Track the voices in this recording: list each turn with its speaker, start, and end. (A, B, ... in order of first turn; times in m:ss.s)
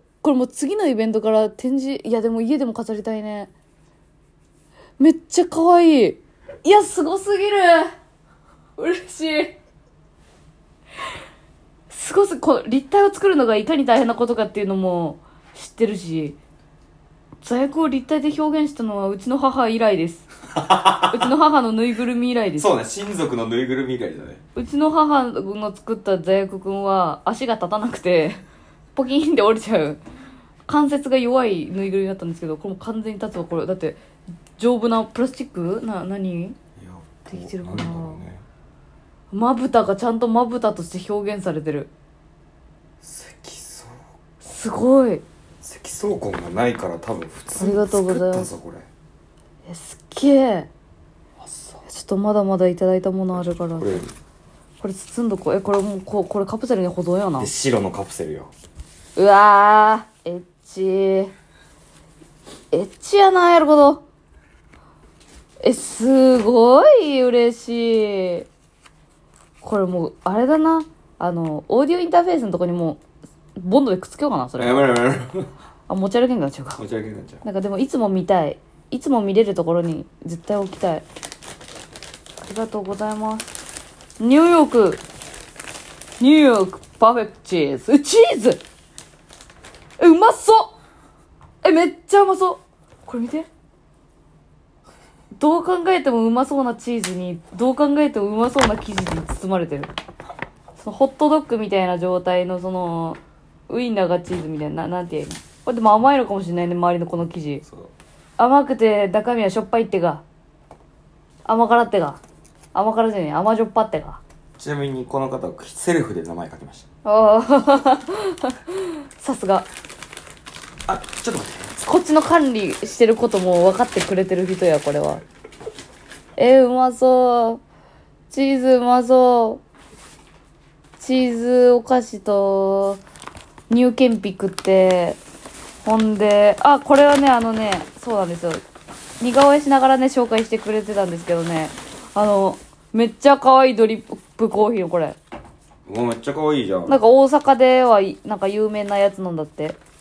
0:00.2-0:03.5 A
0:05.0-0:07.9 A
0:08.8-0:09.6 A
0:11.9-0:16.4 A
0:17.4-0:20.3 A
0:20.6-0:21.3 B
0:21.1-0:22.7 A
0:22.6-0:24.4 B
0:24.6-0:28.4 A
0:29.0-0:30.0 A
0:30.7-0:34.0 A
0:34.6-0:36.6 A
0:36.8-0:38.4 B
0:37.3-0:38.2 A
0:39.3-0:41.9 A
0:43.0-0:44.0 B
0:44.4-0:45.2 A
0:45.6-0:48.9 B
0:47.6-0:48.5 A
0:49.7-0:50.7 A
0:51.4-0:51.8 B
0:51.9-0:54.0 A
0:53.8-0:54.1 B
0:54.8-0:57.5 A
0:57.4-0:58.5 B
0:59.2-1:01.3 A
1:02.7-1:04.0 A
1:05.6-1:08.5 A
1:09.6-1:13.0 A
1:13.6-1:14.9 A
1:14.6-1:15.5 B
1:15.9-1:16.8 A
1:16.8-1:17.4 B
1:17.4-1:21.0 A
1:22.4-1:23.5 A
1:24.2-1:25.0 A
1:26.2-1:28.6 A
1:30.0-1:30.7 A
1:31.6-1:33.5 A
1:35.4-1:39.9 A
1:40.8-1:47.6 A
1:47.6-1:47.9 B
1:48.4-1:50.2 A
1:51.5-1:52.2 A
1:52.7-1:54.2 A
1:54.6-1:56.9 B
1:57.0-1:59.7 A
2:00.9-2:01.7 B
2:01.8-2:05.2 A
2:06.4-2:07.6 A
2:08.3-2:09.6 A
2:11.0-2:13.0 A
2:13.7-2:15.2 A
2:15.8-2:18.6 A
2:19.2-2:25.2 A
2:25.9-2:27.0 B
2:26.9-2:29.8 A